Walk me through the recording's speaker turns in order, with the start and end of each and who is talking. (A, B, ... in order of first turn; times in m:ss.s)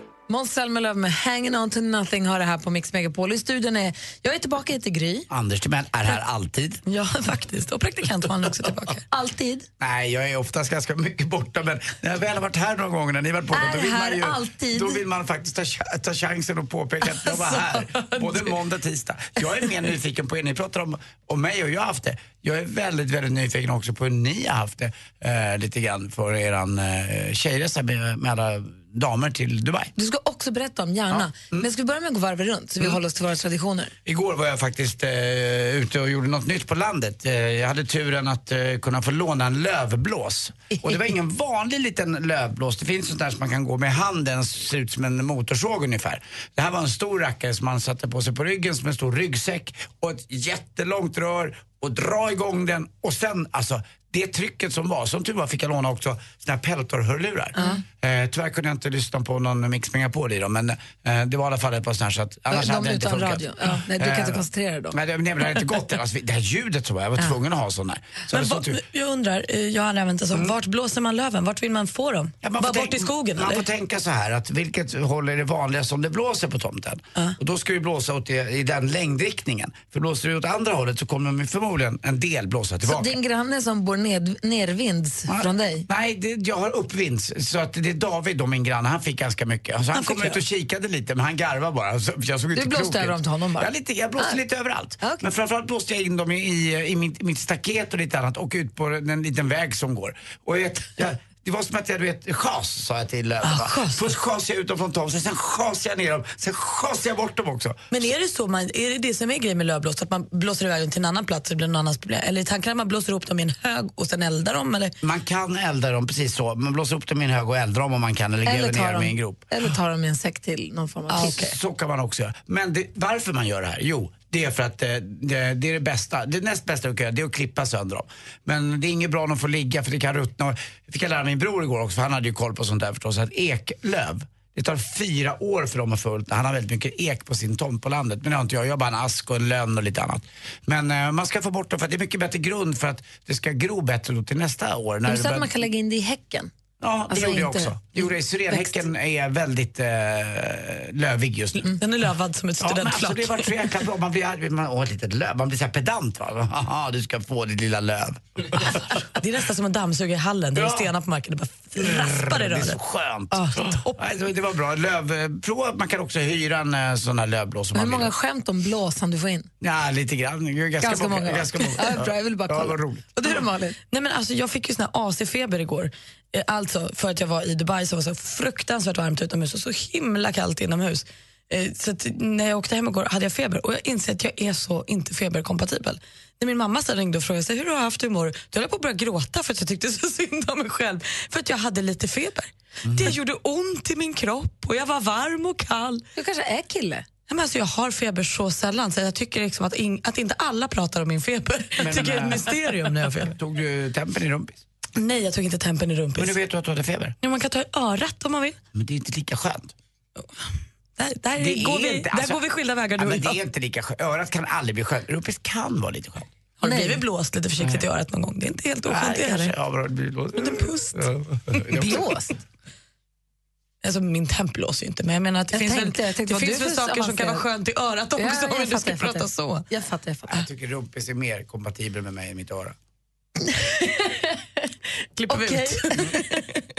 0:00.3-0:05.3 A
0:05.3-0:06.8 B
0:06.9-0:09.0 C
0:09.1-0:09.7 A
0:09.8-0:29.9 B
0:13.5-0:15.0 A
0:17.3-0:18.0 C
0:30.0-0:33.9 A
0:31.1-0:31.7 B
0:34.0-1:08.8 B
1:02.5-1:05.0 A
1:08.3-1:13.7 C
1:12.4-1:23.1 B
1:22.8-1:25.9 A
1:25.3-1:48.0 B
1:30.0-1:30.4 A
1:32.5-1:34.4 A
1:35.0-1:35.3 A
1:43.4-1:44.1 C
1:47.9-1:54.9 C
1:55.0-1:59.4 B
1:58.5-2:01.4 A
2:01.1-2:01.5 C
2:01.3-2:25.5 B
2:25.1-2:26.5 A
2:26.8-2:31.8 B
2:27.1-2:28.8 A
2:31.8-2:33.6 C
2:32.6-2:38.8 B
2:38.6-2:42.8 C
2:40.5-2:40.9 B
2:41.8-2:48.1 B
2:43.3-2:43.6 A
2:43.6-2:43.9 C
2:47.7-2:49.5 A
2:49.6-2:53.1 B
2:50.8-2:53.8 A
2:53.9-3:16.0 C
3:12.8-3:13.2 B
3:16.2-3:17.1 A
3:17.3-3:23.3 C
3:21.8-3:24.6 B
3:25.0-3:26.4 C
3:26.2-3:27.2 B
3:27.2-3:28.6 C
3:28.7-3:29.7 B
3:31.0-3:33.4 C
3:31.4-3:32.4 B
3:33.0-3:36.3 B
3:36.6-3:39.5 C
3:36.6-3:37.0 A
3:38.9-3:42.0 B
3:40.4-3:41.0 C
3:41.8-3:42.3 A
3:43.8-3:49.6 C
3:45.5-3:47.4 A
3:48.2-3:50.5 A
3:50.3-3:52.8 B
3:53.5-3:54.1 A
3:55.2-3:56.4 C
3:55.3-3:56.3 A